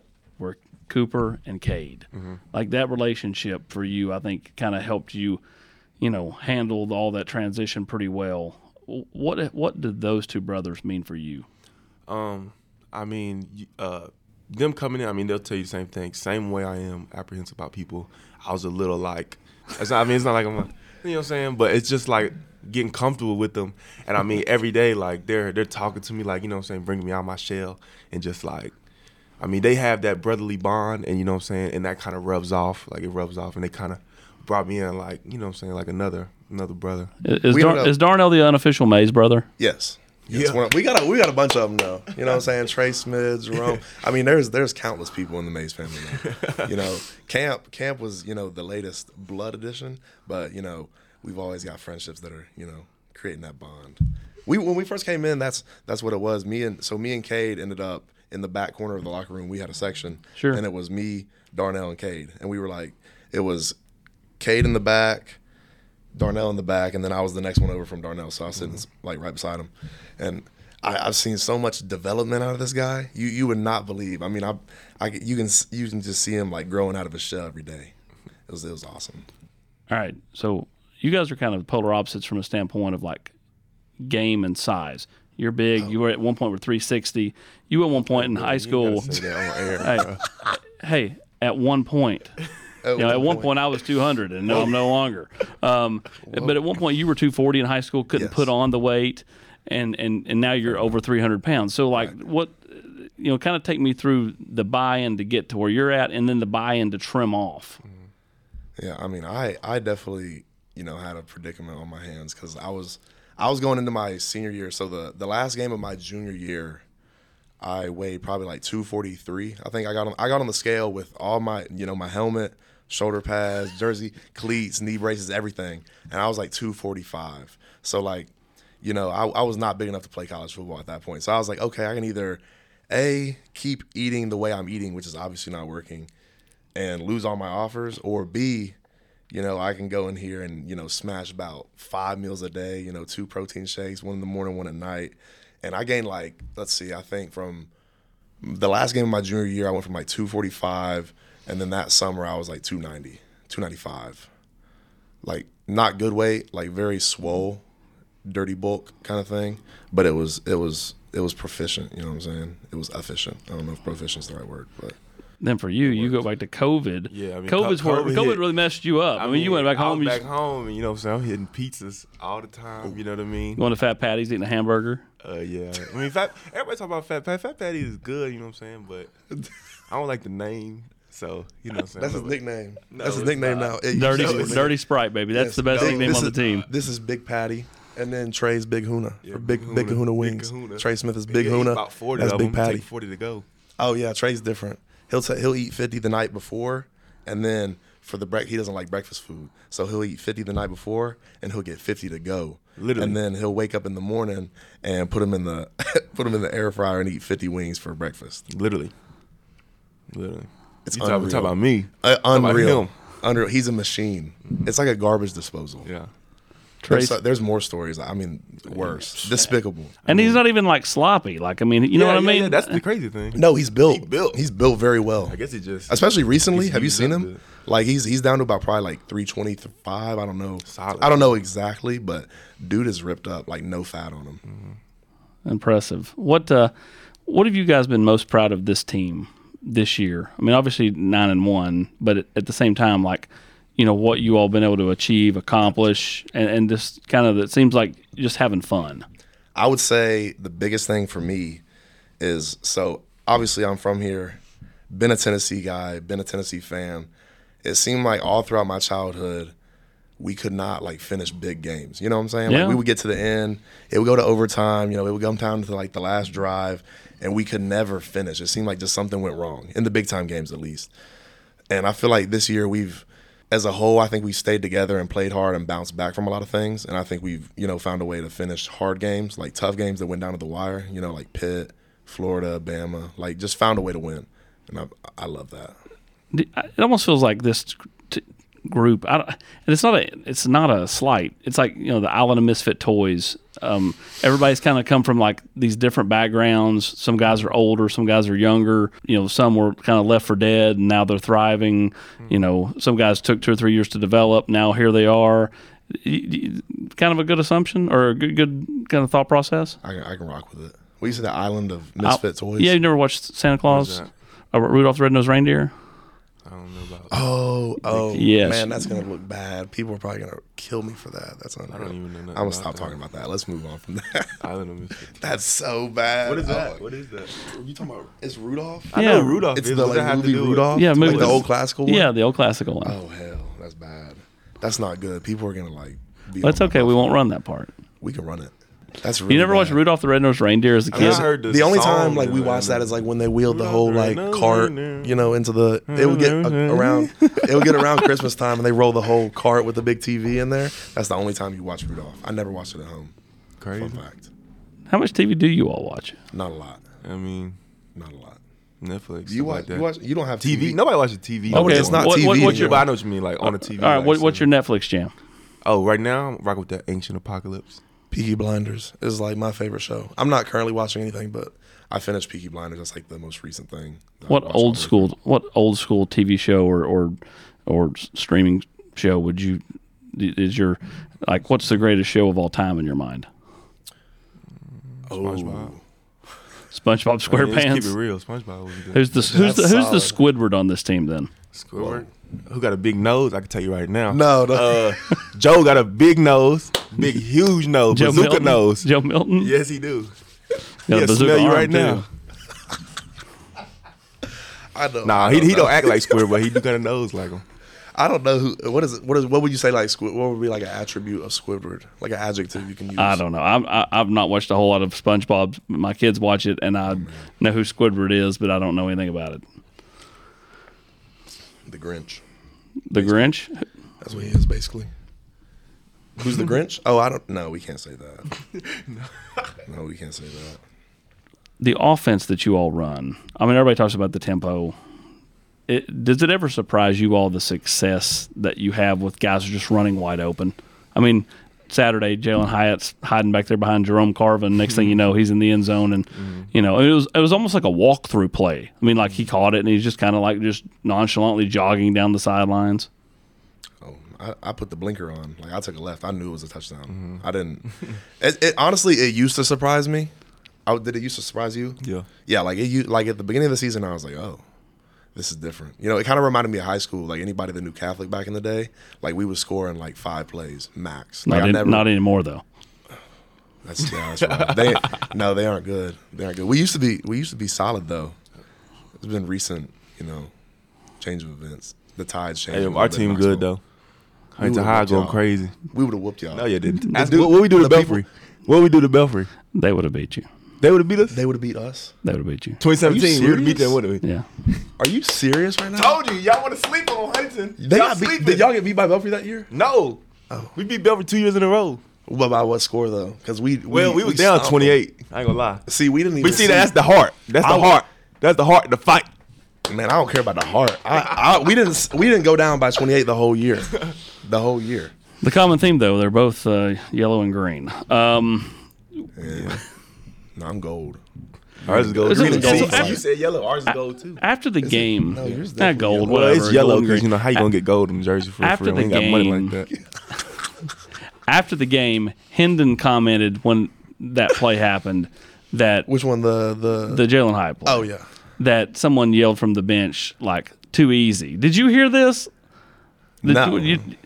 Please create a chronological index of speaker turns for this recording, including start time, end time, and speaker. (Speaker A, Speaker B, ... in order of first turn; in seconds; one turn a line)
Speaker A: 0.4-5.4
Speaker B: 2.1-2.4
Speaker A: 6.0-11.5
Speaker B: 12.1-28.7
Speaker B: 29.4-37.1
Speaker A: 37.2-39.5
Speaker C: 37.5-38.0
Speaker C: 39.6-63.8
Speaker B: 40.3-40.6
Speaker B: 43.6-43.9
Speaker B: 46.2-46.7
Speaker C: 64.4-65.4
Speaker C: 66.1-77.9
Speaker C: 78.5-79.3
Speaker A: 79.9-83.3
Speaker A: 84.0-89.2
Speaker B: 88.1-90.2
Speaker A: 89.8-90.1
Speaker A: 90.6-92.4
Speaker C: 92.8-93.5
Speaker A: 93.0-107.8
Speaker C: 96.2-96.6
Speaker C: 98.1-98.5
Speaker C: 108.8-116.8
Speaker C: 117.6-136.1
Speaker C: 136.8-138.8
Speaker C: 139.3-147.7
Speaker C: 148.4-154.3
Speaker C: 155.2-157.6
Speaker C: 158.2-165.0
Speaker A: 165.4-170.3
Speaker B: 167.1-168.5
Speaker B: 169.2-173.6
Speaker A: 173.6-175.0
Speaker B: 175.2-179.1
Speaker B: 179.9-184.7
Speaker C: 181.9-184.7
Speaker A: 183.9-186.7
Speaker C: 185.3-192.9
Speaker B: 185.7-186.5
Speaker B: 189.2-193.4
Speaker C: 193.8-208.4
Speaker B: 202.8-203.2
Speaker B: 208.5-208.9
Speaker B: 210.1-212.9
Speaker C: 210.9-215.9
Speaker B: 215.8-216.1
Speaker A: 216.8-217.2
Speaker C: 216.9-220.0
Speaker B: 218.7-219.4
Speaker B: 220.1-220.4
Speaker A: 220.1-222.8
Speaker B: 221.9-224.4
Speaker C: 223.3-234.4
Speaker B: 225.2-227.4
Speaker B: 230.7-231.4
Speaker B: 234.5-234.8
Speaker A: 235.5-236.7
Speaker A: 237.3-249.1
Speaker C: 249.6-251.6
Speaker C: 252.2-257.1
Speaker C: 257.6-259.5
Speaker C: 260.2-270.9
Speaker A: 262.5-262.8
Speaker C: 271.7-285.8
Speaker A: 286.3-309.8
Speaker C: 309.8-312.8
Speaker A: 312.0-315.7
Speaker B: 313.7-314.1
Speaker B: 316.4-317.3
Speaker C: 317.1-324.4
Speaker A: 318.1-318.9
Speaker B: 321.7-323.0
Speaker B: 324.4-325.3
Speaker C: 325.1-326.8
Speaker B: 326.2-327.5
Speaker C: 327.4-328.9
Speaker B: 328.9-331.5
Speaker A: 328.9-329.5
Speaker C: 329.5-332.1
Speaker A: 330.7-333.0
Speaker C: 332.8-337.1
Speaker A: 336.4-337.7
Speaker C: 338.0-339.8
Speaker A: 339.3-341.3
Speaker C: 340.9-353.1
Speaker B: 340.9-342.9
Speaker B: 343.5-345.2
Speaker B: 345.9-348.1
Speaker B: 353.6-354.0
Speaker C: 353.8-354.3
Speaker A: 354.9-356.2
Speaker C: 356.3-356.8
Speaker B: 357.0-357.6
Speaker C: 357.9-358.4
Speaker B: 358.8-359.9
Speaker C: 359.3-360.8
Speaker B: 360.4-364.4
Speaker C: 361.5-362.9
Speaker A: 361.5-362.8
Speaker A: 363.4-365.1
Speaker B: 365.6-367.8
Speaker C: 368.1-375.1
Speaker A: 374.3-379.6
Speaker A: 380.1-383.3
Speaker B: 384.9-385.8
Speaker C: 385.1-385.8
Speaker A: 386.7-387.9
Speaker B: 387.3-389.1
Speaker A: 388.9-391.3
Speaker C: 389.1-390.2
Speaker B: 391.5-400.1
Speaker C: 391.8-392.1
Speaker C: 394.1-395.0
Speaker A: 397.9-399.5
Speaker A: 400.9-402.1
Speaker B: 400.9-402.1
Speaker C: 404.7-406.3
Speaker B: 405.0-407.4
Speaker C: 407.9-413.2
Speaker A: 413.0-419.4
Speaker C: 416.9-417.2
Speaker C: 421.6-422.2
Speaker A: 422.9-423.7
Speaker C: 422.9-423.3
Speaker C: 424.0-424.9
Speaker C: 426.2-428.3
Speaker B: 428.6-429.5
Speaker C: 429.6-430.6
Speaker A: 431.6-434.8
Speaker A: 435.7-452.9
Speaker B: 444.7-444.9
Speaker B: 446.1-446.5
Speaker C: 453.8-460.1
Speaker B: 456.9-457.2
Speaker C: 460.7-464.4
Speaker B: 461.8-462.1
Speaker C: 465.1-471.9
Speaker A: 471.3-472.4
Speaker C: 473.6-478.2
Speaker B: 474.2-475.1
Speaker C: 479.0-480.3
Speaker C: 481.0-483.5
Speaker B: 482.5-483.6
Speaker B: 484.4-485.6
Speaker C: 484.4-488.1
Speaker B: 486.3-489.3
Speaker A: 489.5-490.3
Speaker B: 490.6-491.2
Speaker C: 491.1-491.9
Speaker A: 492.0-492.6
Speaker B: 492.6-494.0
Speaker C: 492.8-493.8
Speaker C: 494.8-496.0
Speaker B: 495.7-498.5
Speaker C: 497.6-499.5
Speaker B: 499.5-500.0
Speaker B: 500.6-501.8
Speaker C: 502.1-504.8
Speaker B: 503.7-505.7
Speaker C: 505.7-506.8
Speaker B: 506.2-509.1
Speaker C: 507.4-507.8
Speaker C: 509.7-514.9
Speaker A: 515.2-518.6
Speaker C: 519.2-519.6
Speaker B: 519.3-519.6
Speaker C: 520.4-521.0
Speaker C: 521.6-523.0
Speaker B: 521.6-524.2
Speaker A: 522.1-523.0
Speaker A: 524.2-527.5
Speaker C: 524.6-526.5
Speaker B: 526.1-529.7
Speaker A: 528.4-529.5
Speaker A: 531.3-535.9
Speaker C: 535.9-537.0
Speaker A: 536.9-537.9
Speaker C: 537.6-538.0
Speaker A: 538.4-542.3
Speaker C: 543.2-543.9
Speaker A: 543.2-543.9